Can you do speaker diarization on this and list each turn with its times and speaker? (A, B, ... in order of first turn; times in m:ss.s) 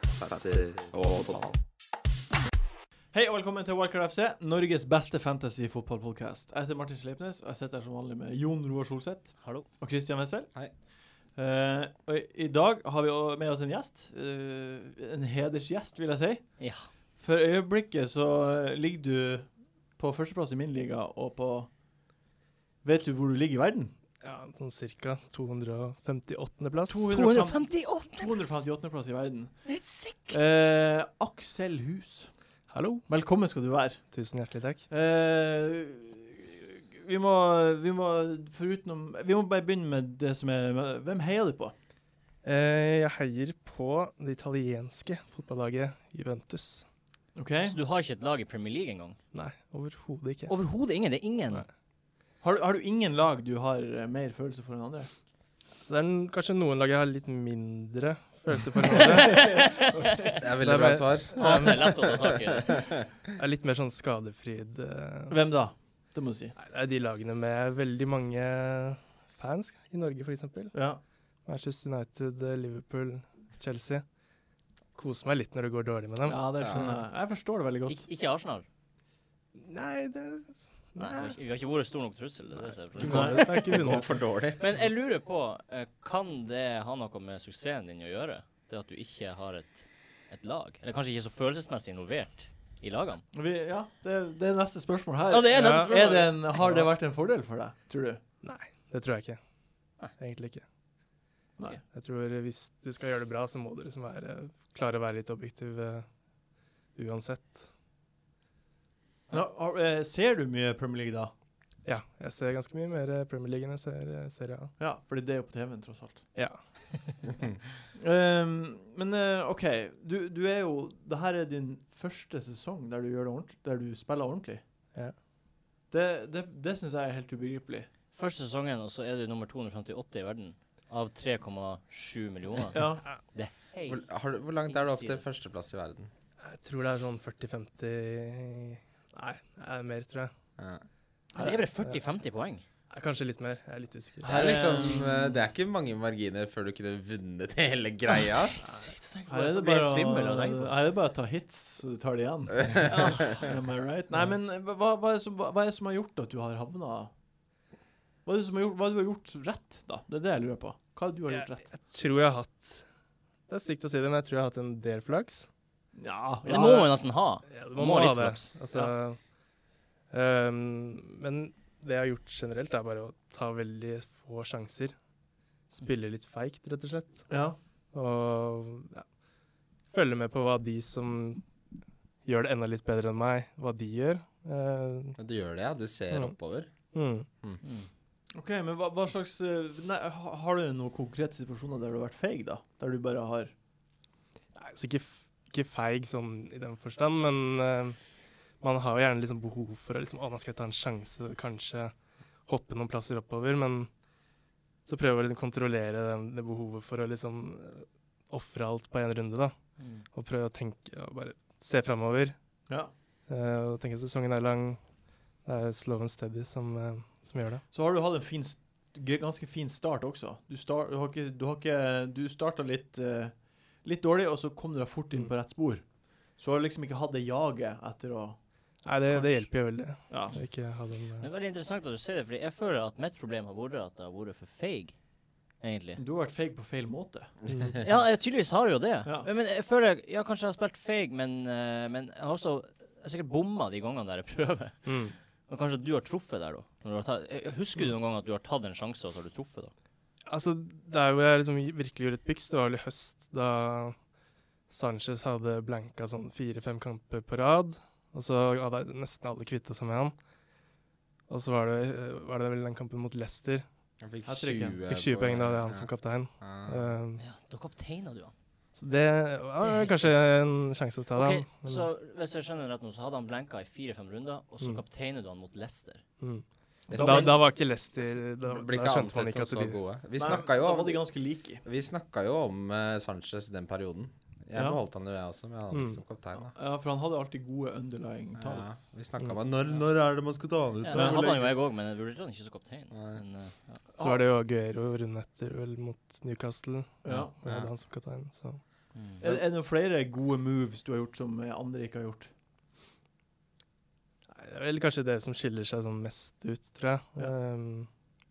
0:00.2-0:01.5 A
0:03.1-0:10.5 B
0:09.4-0:09.6 C
0:11.3-0:21.7 B
0:16.6-0:16.9 C
0:22.8-0:23.9 B
0:24.2-0:27.1 D
0:26.9-0:32.3 B
0:27.1-0:28.6 C
0:29.6-0:30.4 C
0:32.7-0:33.1 D
0:33.1-0:34.1 B
0:34.1-0:34.9 D
0:34.9-0:41.7 B
0:42.4-0:46.8 D
0:47.3-0:47.8 B
0:47.6-0:49.2 C
0:49.3-0:50.5 D
0:50.5-0:51.6 C
0:52.4-0:55.1 B
0:55.8-0:59.7 D
0:59.0-1:00.3 B
0:59.5-1:00.2 C
1:00.4-1:02.3 A
1:00.6-1:02.0 D
1:01.4-1:02.8 C
1:03.4-1:05.4 D
1:05.3-1:06.6 B
1:06.6-1:10.8 D
1:10.7-1:11.0 B
1:11.4-1:14.0 D
1:14.9-1:17.0 D
1:16.2-1:18.0 B
1:16.6-1:16.9 A
1:17.9-1:18.6 C
1:19.6-1:21.4 D
1:21.0-1:23.4 C
1:23.0-1:23.5 B
1:23.0-1:24.2 D
1:23.1-1:24.6 A
1:24.6-1:33.2 C
1:33.3-1:38.2 B
1:35.3-1:36.9 C
1:35.5-1:35.9 D
1:38.4-1:39.4 D
1:40.2-1:40.6 D
1:41.9-1:46.1 D
1:46.9-1:47.7 D
1:49.3-1:51.3 B
1:51.8-1:54.7 D
1:54.8-1:56.2 B
1:56.3-1:57.1 D
1:57.9-2:04.6 B
2:05.9-2:07.9 B
2:08.1-2:14.0 C
2:12.7-2:13.0 B
2:13.8-2:16.1 A
2:14.6-2:15.3 C
2:16.4-2:20.3 D
2:20.6-2:20.8 A
2:21.3-2:22.6 C
2:21.3-2:21.6 B
2:22.9-2:24.7 D
2:24.2-2:25.1 B
2:24.2-2:28.6 A
2:24.8-2:25.1 C
2:28.4-2:30.8 C
2:28.6-2:28.9 D
2:29.3-2:37.1 B
2:32.9-2:33.4 C
2:38.2-2:41.6 B
2:41.3-2:42.8 D
2:43.5-2:45.5 D
2:45.9-2:46.9 B
2:46.5-2:46.9 D
2:46.5-2:48.5 C
2:47.4-2:49.2 D
2:50.1-2:54.9 D
2:55.7-2:57.3 D
2:57.3-2:57.6 B
2:57.9-2:59.0 D
2:59.9-3:01.4 D
3:02.2-3:05.2 D
3:05.2-3:06.7 A
3:06.1-3:06.4 D
3:06.9-3:07.3 D
3:07.6-3:07.9 C
3:08.3-3:13.5 B
3:14.6-3:18.0 D
3:18.6-3:21.9 D
3:22.4-3:23.9 D
3:24.9-3:32.4 D
3:29.8-3:30.0 C
3:33.3-3:34.8 D
3:35.4-3:37.6 D
3:37.7-3:48.4 B
3:48.8-3:51.3 D
3:49.1-3:50.4 B
3:51.2-3:55.0 C
3:55.6-3:56.0 C
3:56.0-3:57.4 B
3:57.5-3:57.8 D
3:57.8-4:09.7 C
4:04.8-4:05.1 D
4:10.2-4:14.0 D
4:14.7-4:20.1 D
4:21.3-4:23.6 D
4:24.0-4:26.9 A
4:24.2-4:24.8 B
4:24.9-4:27.2 D
4:27.2-4:28.3 C
4:28.8-4:31.9 D
4:29.6-4:30.3 C
4:31.1-4:36.0 C
4:36.2-4:39.8 D
4:36.9-4:37.4 B
4:36.9-4:41.1 A
4:40.2-4:41.6 B
4:41.6-4:46.5 A
4:45.7-4:46.0 D
4:46.3-4:48.7 B
4:48.4-4:51.5 A
4:50.8-4:53.8 C
4:50.9-4:51.5 B
4:52.9-4:53.2 A
4:54.0-4:54.2 B
4:54.0-4:58.6 D
4:57.0-4:57.3 B
4:57.1-4:57.7 A
4:58.9-4:59.2 C
4:59.2-5:02.3 B
5:04.3-5:07.9 D